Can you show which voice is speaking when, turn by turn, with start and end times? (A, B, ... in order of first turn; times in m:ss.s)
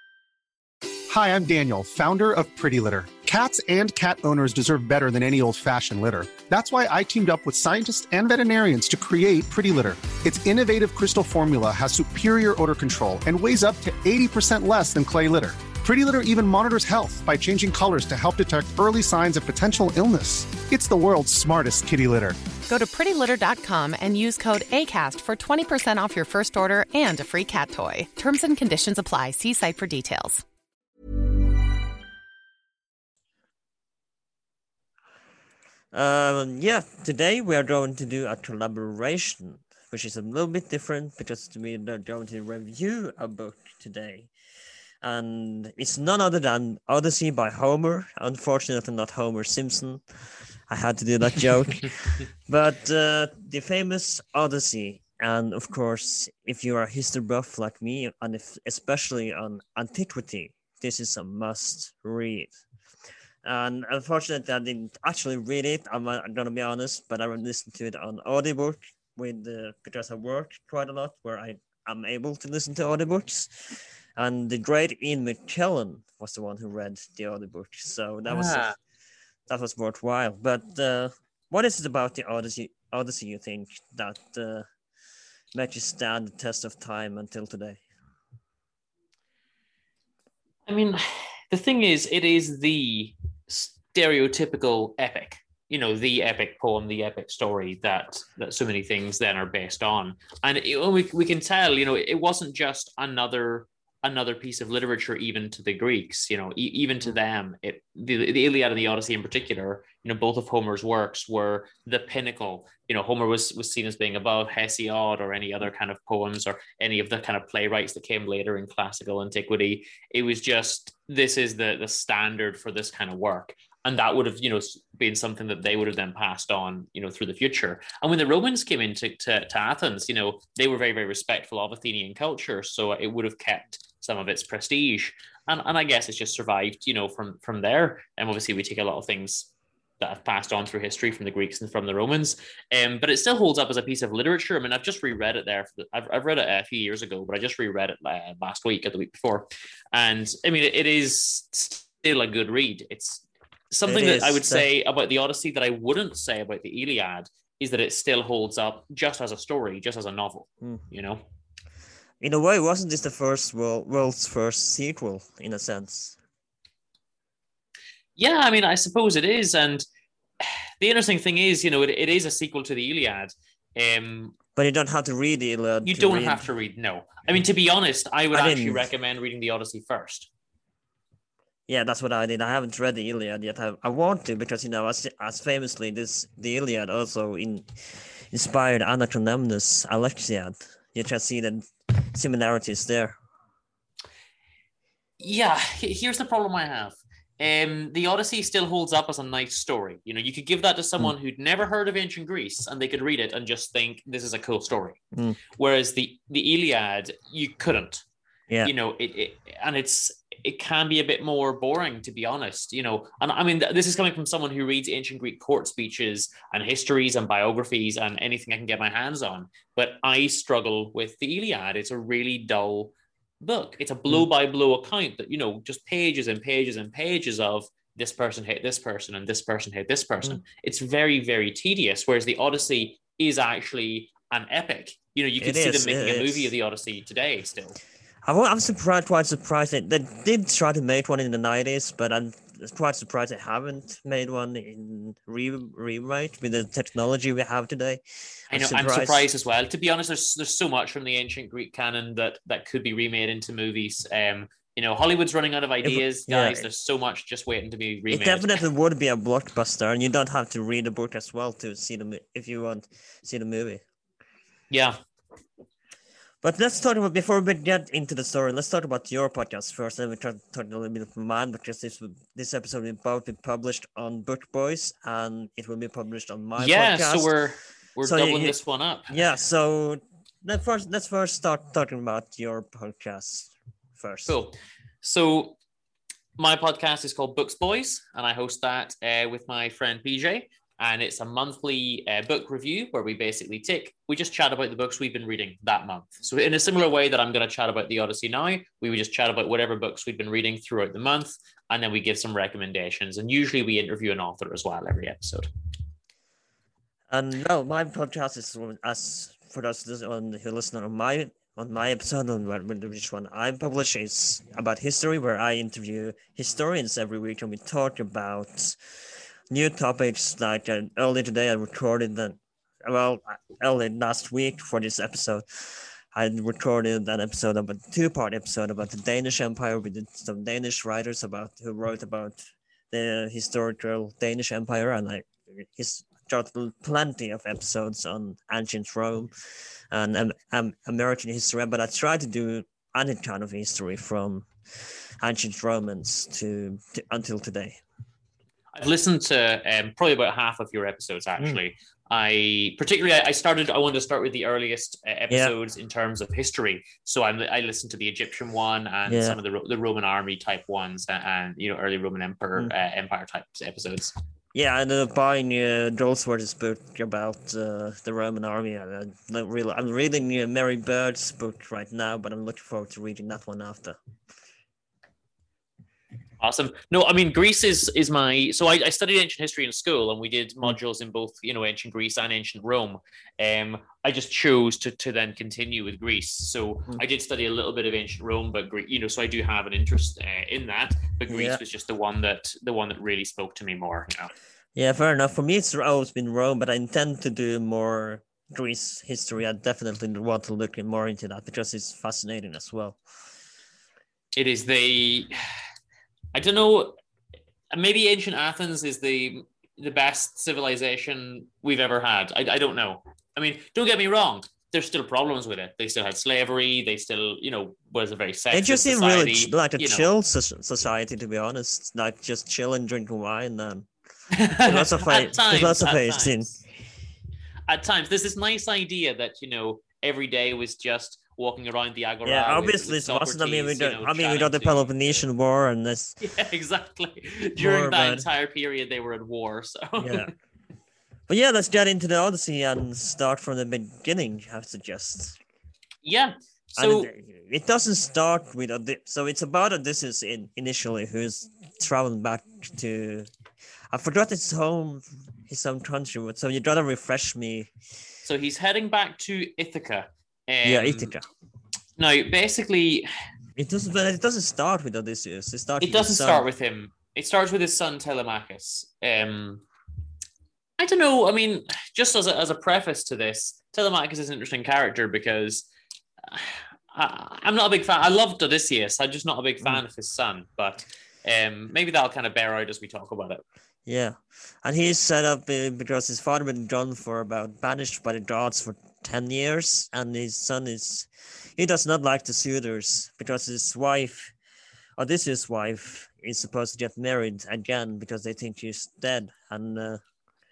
0:01.1-0:22.4 A
0:22.7-0:30.4 B
0:35.9-0:44.3 C
0:45.0-1:02.5 C
1:03.4-1:18.7 C
1:18.3-1:18.8 D
1:19.5-1:24.7 C
1:25.5-1:27.8 C
1:30.7-2:41.2 D
2:33.9-2:34.6 C
2:42.2-2:46.2 C
2:48.2-2:49.8 D
2:50.4-2:54.3 D
2:54.5-2:56.4 C
2:55.8-3:00.3 D
2:58.3-2:58.8 C
3:01.7-3:13.2 C
3:15.2-3:25.0 D
3:25.1-3:25.4 C
3:25.6-3:28.0 D
3:28.6-3:57.8 D
3:55.4-3:56.5 C
3:58.2-4:09.3 C
4:08.5-4:18.6 D
4:15.8-4:16.6 C
4:18.1-4:23.8 C
4:24.7-4:25.0 D
4:26.4-4:37.3 C
4:36.6-4:39.2 D
4:38.0-4:38.6 C
4:39.1-4:44.4 C
4:44.2-4:45.6 D
4:46.4-5:05.5 D
5:07.1-5:19.0 C
5:19.5-5:39.3 C
5:39.9-5:47.8 C
5:48.7-6:04.1 D
5:55.3-5:55.6 C
5:59.1-5:59.4 C
6:04.5-6:14.0 C
6:16.4-6:34.3 D
6:31.3-6:31.6 C
6:34.8-6:43.0 C
6:44.4-6:45.3 D
6:46.3-6:47.0 D
6:47.7-7:00.1 D
6:58.5-7:03.9 C
7:04.3-7:06.4 D
7:04.6-7:06.5 C
7:07.7-7:15.2 D
7:12.2-7:16.2 C
7:16.2-7:20.3 D
7:17.6-7:18.2 C
7:20.0-7:20.3 C
7:21.3-7:25.4 C
7:26.0-7:27.1 D
7:26.8-7:33.3 C
7:33.9-7:37.7 C
7:38.2-7:41.1 D
7:40.6-7:41.3 C
7:42.0-7:43.1 D
7:43.6-7:46.4 C
7:45.8-7:49.6 D
7:50.8-7:55.7 D
7:56.2-8:03.4 D
8:03.8-8:14.3 C
8:15.0-8:20.0 C